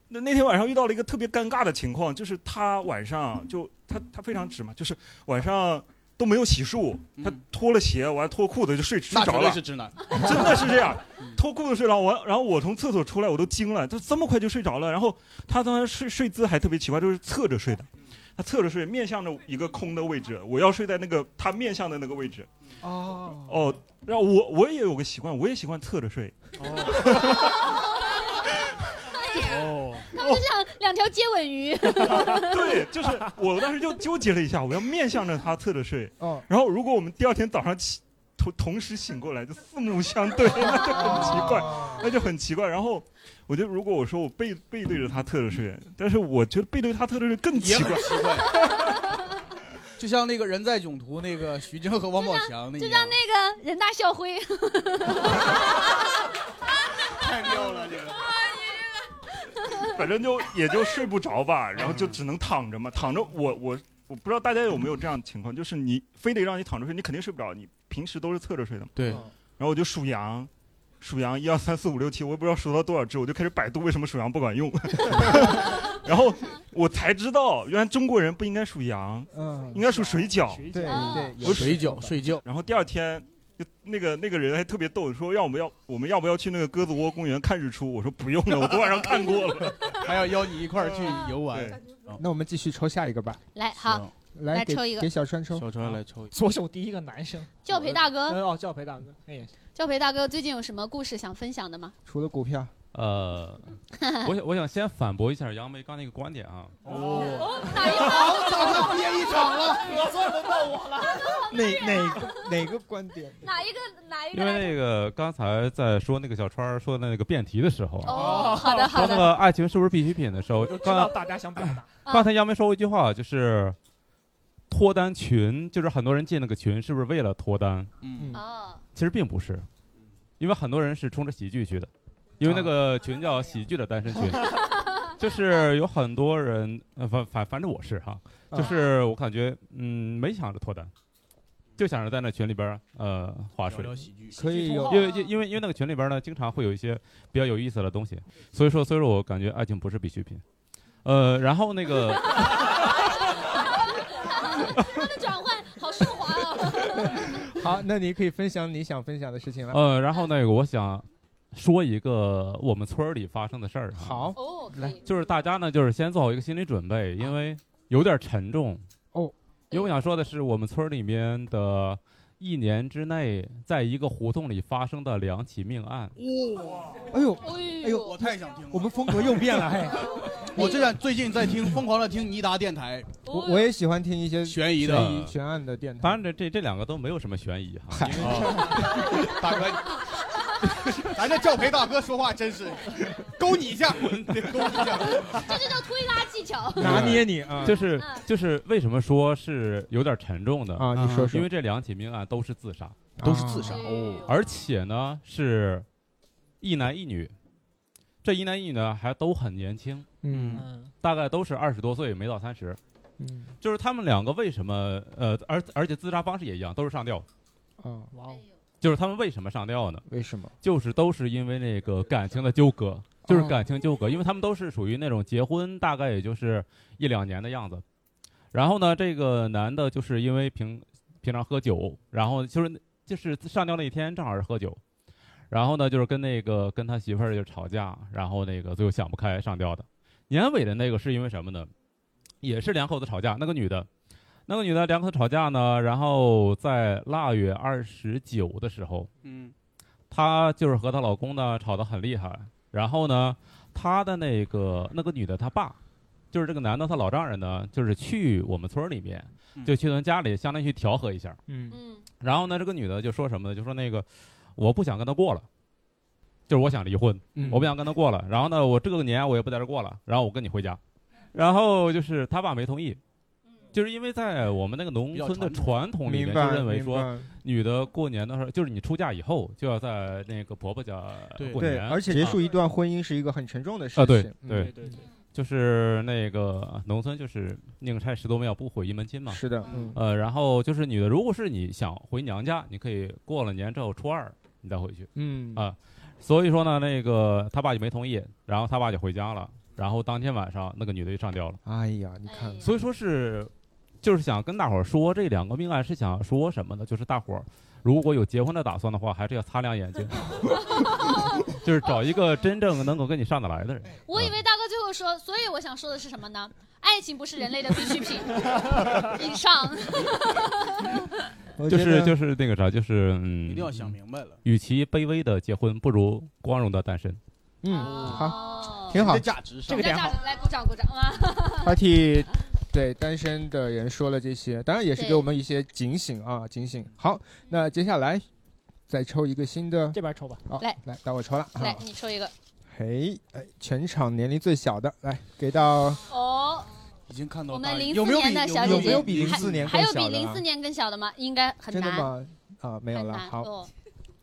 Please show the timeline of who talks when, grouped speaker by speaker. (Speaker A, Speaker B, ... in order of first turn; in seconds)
Speaker A: 0.1-22.5, 23.5-27.6, 30.2-30.4, 32.4-48.4, 59.9-68.9, 69.6-70.5, 71.0-80.8, 81.4-81.7, 82.4-90.0, 91.5-91.8
Speaker B: 7.2-7.4, 9.1-10.6, 47.5-48.5, 50.0-53.2, 57.2-58.2, 61.8-62.2, 69.0-69.2, 81.5-82.4, 89.9-92.2, 93.8-94.1, 95.5-96.3, 106.9-109.9, 128.0-128.3, 143.6-144.4, 178.0-179.7, 180.4-183.2, 184.5-185.3, 188.1-190.0, 191.0-195.8, 201.0-201.3, 203.2-204.3, 210.3-210.7, 249.2-249.5, 275.1-275.8, 281.4-281.7, 323.5-324.4, 327.9-328.3, 328.9-330.1, 347.1-349.7
Speaker C: 22.8-23.7, 36.2-36.5, 40.7-42.1, 79.3-79.9, 80.7-82.2, 92.2-93.4, 94.3-95.7, 102.1-102.7, 111.5-113.4, 132.4-132.7, 144.3-145.1, 157.2-159.8, 163.9-164.9, 177.1-180.8, 183.2-186.2, 187.9-189.5, 196.8-197.8, 200.8-201.5, 203.2-203.8, 210.2-210.7, 213.2-213.5, 217.8-218.1, 220.1-220.5, 223.2-223.6, 261.5-261.8, 267.4-267.7, 276.0-277.3, 281.5-284.8, 289.3-290.0, 295.1-295.7, 301.6-302.7, 321.6-322.2, 327.6-329.3, 331.6-338.2, 338.9-341.9, 342.7-346.0, 348.6-350.4, 351.7-353.5
Speaker D: 27.5-28.2, 29.2-32.8, 52.2-55.5, 80.9-81.3, 93.5-95.1, 97.7-98.4, 99.8-101.9, 104.0-104.3, 107.2-109.1, 111.2-112.3, 113.4-114.8, 118.0-119.3, 122.1-122.3, 128.3-128.8, 152.4-157.5, 164.3-165.0, 177.4-178.1, 183.3-183.6, 195.2-197.0, 198.0-198.2, 203.7-204.5, 261.7-262.0, 302.3-302.7, 310.8-311.1, 314.1-320.9, 327.7-329.0, 329.7-331.7, 335.0-335.3, 341.6-342.3, 346.1-346.7, 347.5-352.1, 352.9-353.7
Speaker E: 29.6-30.1, 79.8-81.6, 95.8-99.5, 106.9-107.5, 118.1-119.3, 120.5-122.0, 144.6-144.8, 218.1-218.4, 284.4-285.0, 329.7-330.2, 339.9-340.4
Speaker F: 102.9-103.7, 104.2-106.9, 114.3-123.8, 124.7-127.9, 128.9-129.7, 130.4-140.9, 141.8-144.1, 144.8-150.4, 151.0-152.6, 159.7-164.3, 165.1-168.8, 169.7-176.1, 184.9-185.3, 186.0-188.2, 196.8-203.0, 204.2-205.8, 206.6-207.3, 208.2-210.1, 211.0-212.8, 213.6-217.3, 218.8-220.1, 220.6-227.8, 228.5-234.8, 235.5-241.7, 242.4-243.9, 244.5-249.1, 250.1-255.8, 256.3-261.4, 262.2-265.5, 266.5-270.8, 271.3-273.0, 273.7-282.5, 284.0-284.8, 285.3-301.6, 302.6-311.1, 311.6-314.3, 321.7-323.8, 324.4-327.2